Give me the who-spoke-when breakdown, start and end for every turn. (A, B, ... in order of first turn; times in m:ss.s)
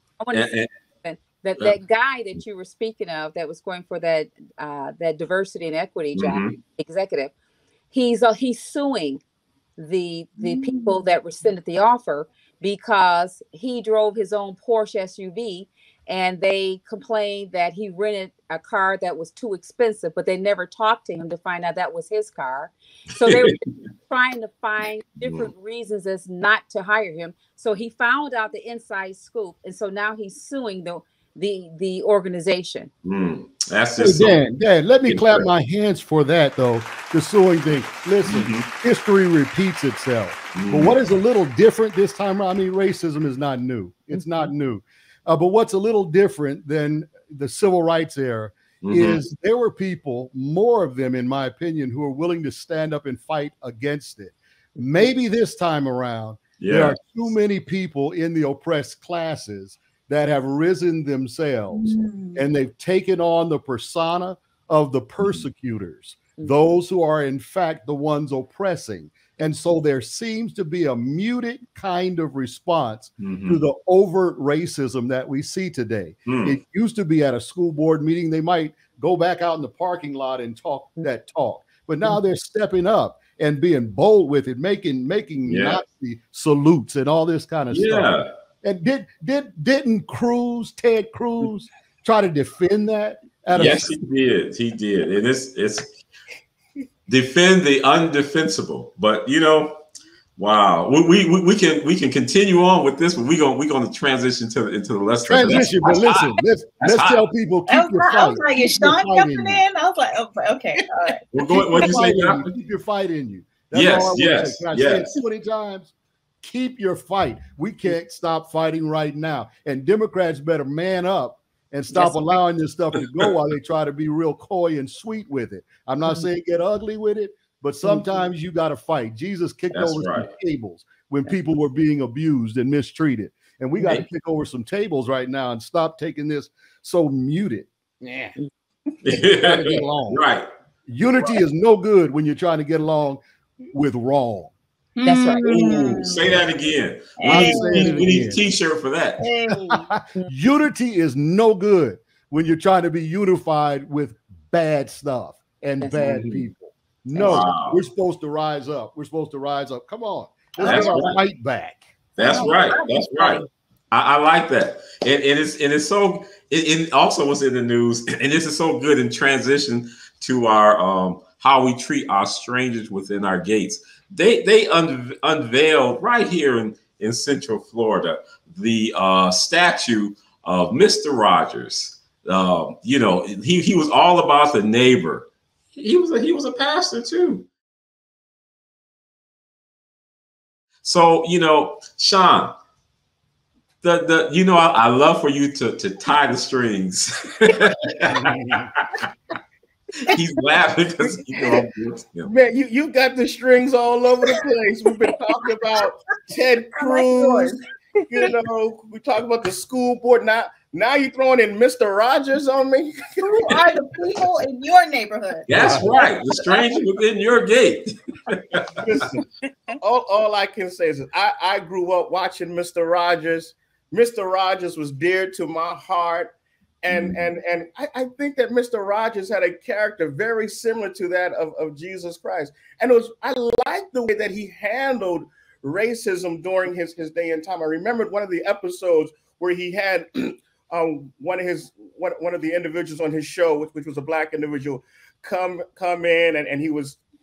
0:00.2-0:07.3 A
0:00.3-0:00.7 B
0:06.2-0:06.6 B
0:07.9-0:09.2 A
0:09.8-0:32.9 A
0:10.4-0:11.0 C
0:23.3-0:23.5 B
0:25.2-0:25.5 B
0:33.0-0:34.4 B
0:34.0-1:28.1 D
0:35.1-0:35.4 B
0:38.2-0:38.7 B
0:40.6-0:40.9 B
0:44.1-0:44.4 A
0:48.8-0:49.2 B
0:56.6-0:57.0 B
1:01.7-1:02.4 C
1:13.2-1:13.6 B
1:16.3-1:16.6 B
1:25.5-1:25.8 B
1:27.7-1:28.3 B
1:28.6-1:33.9 D
1:33.5-1:35.9 B
1:37.1-1:39.8 B
1:40.4-1:47.3 B
1:45.3-1:49.6 D
1:47.7-1:51.2 C
1:51.3-1:52.5 B
1:51.5-2:18.4 D
1:53.7-1:55.1 B
2:01.9-2:02.2 A
2:09.7-2:10.3 B
2:19.0-2:20.5 B
2:19.1-2:20.2 D
2:20.9-2:24.5 D
2:25.0-2:26.4 C
2:25.0-2:25.8 A
2:25.3-2:29.2 B
2:27.2-2:28.0 C
2:27.3-2:28.4 D
2:29.2-2:29.9 C
2:29.5-2:42.0 D
2:36.0-2:36.4 B
2:37.2-2:37.8 B
2:40.6-2:41.2 B
2:40.6-2:41.0 C
2:42.2-2:43.4 C
2:42.2-3:07.5 B
3:10.8-3:12.6 B
3:13.8-3:19.1 B
3:18.1-3:18.7 D
3:20.1-3:22.3 B
3:22.2-3:27.6 E
3:26.8-3:27.6 C
3:28.1-3:33.2 E
3:33.2-3:36.8 C
3:35.5-3:38.9 B
3:38.8-3:39.2 E
3:39.8-3:46.3 E
3:46.8-4:07.0 E
3:46.9-3:47.2 B